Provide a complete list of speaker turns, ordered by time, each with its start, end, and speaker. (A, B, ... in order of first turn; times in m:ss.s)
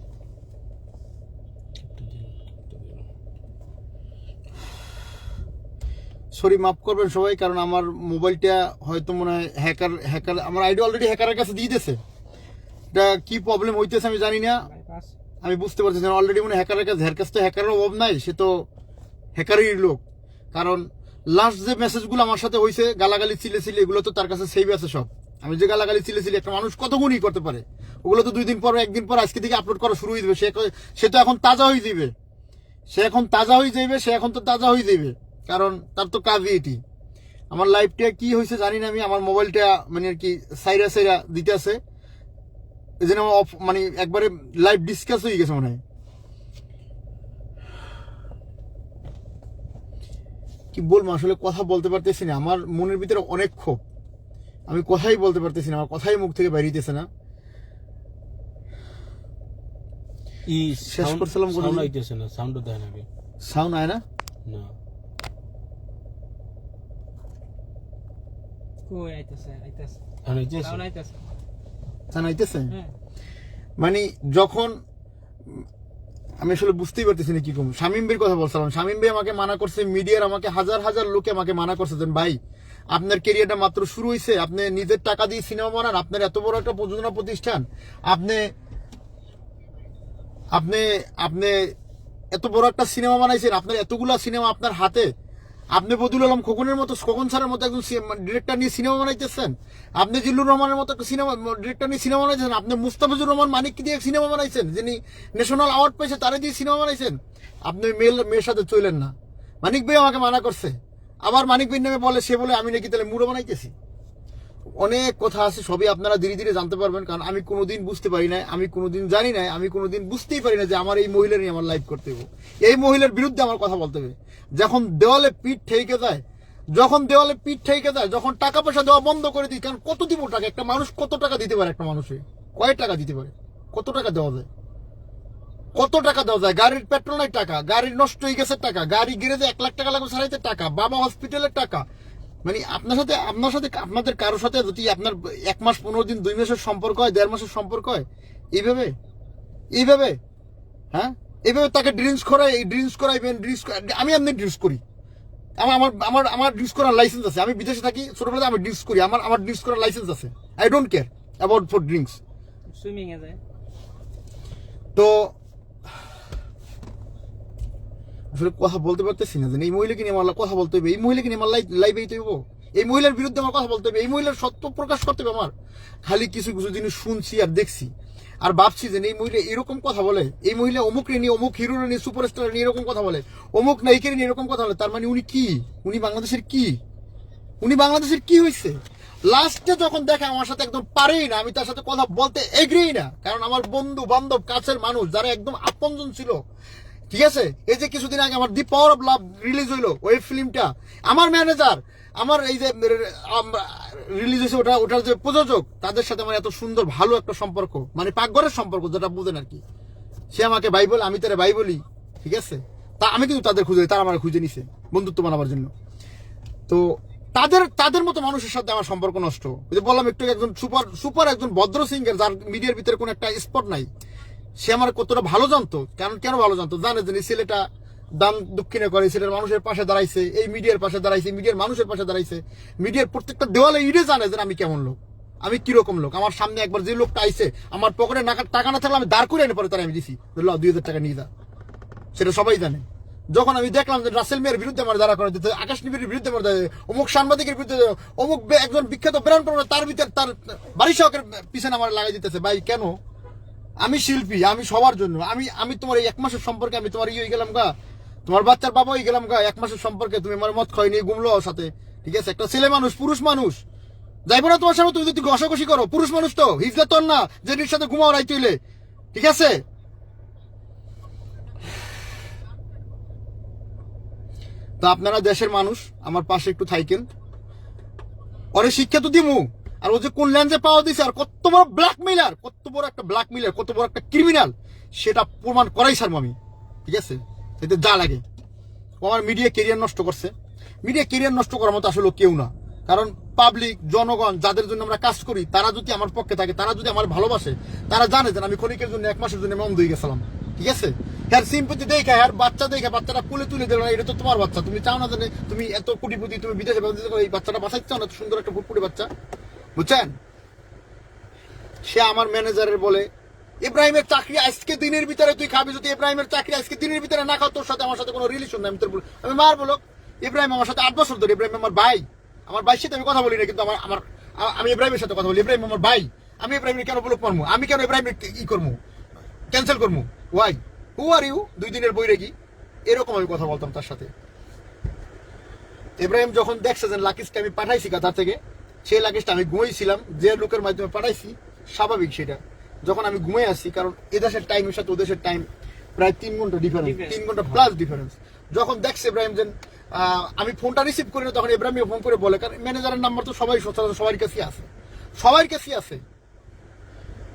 0:01.8-0:03.0 A
0:06.3-0:12.0 B
0:12.9-0:14.6 B
0:14.6-0:15.1 C
0:15.4-0:18.7 B
0:19.4-0:20.0 B
0:20.5-0:32.1 B
0:32.9-0:36.8 B
0:37.5-0:41.8 B
0:43.0-0:45.8 B
0:50.7-0:53.8 B
0:54.7-0:57.1 B
1:00.5-1:03.1 A
1:00.8-1:01.9 B
1:03.4-1:04.0 B
1:04.4-1:04.7 A
1:08.9-1:10.0 C
1:10.2-1:10.8 A
1:10.6-1:11.2 C
1:12.1-1:12.7 B
1:13.8-1:14.8 B
1:16.4-1:22.4 B
1:22.9-1:28.5 B
1:30.5-1:31.7 B
1:32.3-1:35.1 B
1:35.8-1:53.7 B
1:54.8-2:06.2 B
2:06.8-2:14.5 B
2:15.7-2:21.8 B
2:22.4-2:28.9 B
2:29.7-2:30.2 B
2:30.9-2:34.8 B
2:35.6-2:42.2 B
2:42.7-2:43.4 C
2:44.9-2:45.3 B
2:48.3-2:55.5 B
2:56.0-2:57.9 B
2:58.4-3:06.8 B
3:07.6-3:16.4 B
3:17.1-3:29.6 B
3:30.3-3:35.7 B
3:36.7-3:43.9 B
3:44.6-3:47.6 B
3:48.2-4:01.3 B
4:02.1-4:13.0 B
4:13.8-4:17.7 B
4:18.2-4:23.6 B
4:24.2-4:28.6 B
4:29.1-4:29.6 B
4:34.8-4:37.1 B
4:38.5-4:46.4 B
4:46.9-4:48.2 B
4:49.0-4:50.3 B
4:50.8-5:09.1 B
5:09.8-5:10.1 B
5:11.8-5:13.1 B
5:13.6-5:28.8 B
5:29.5-5:32.3 B
5:32.9-5:34.1 B
5:36.0-5:56.0 B
5:46.8-5:47.4 C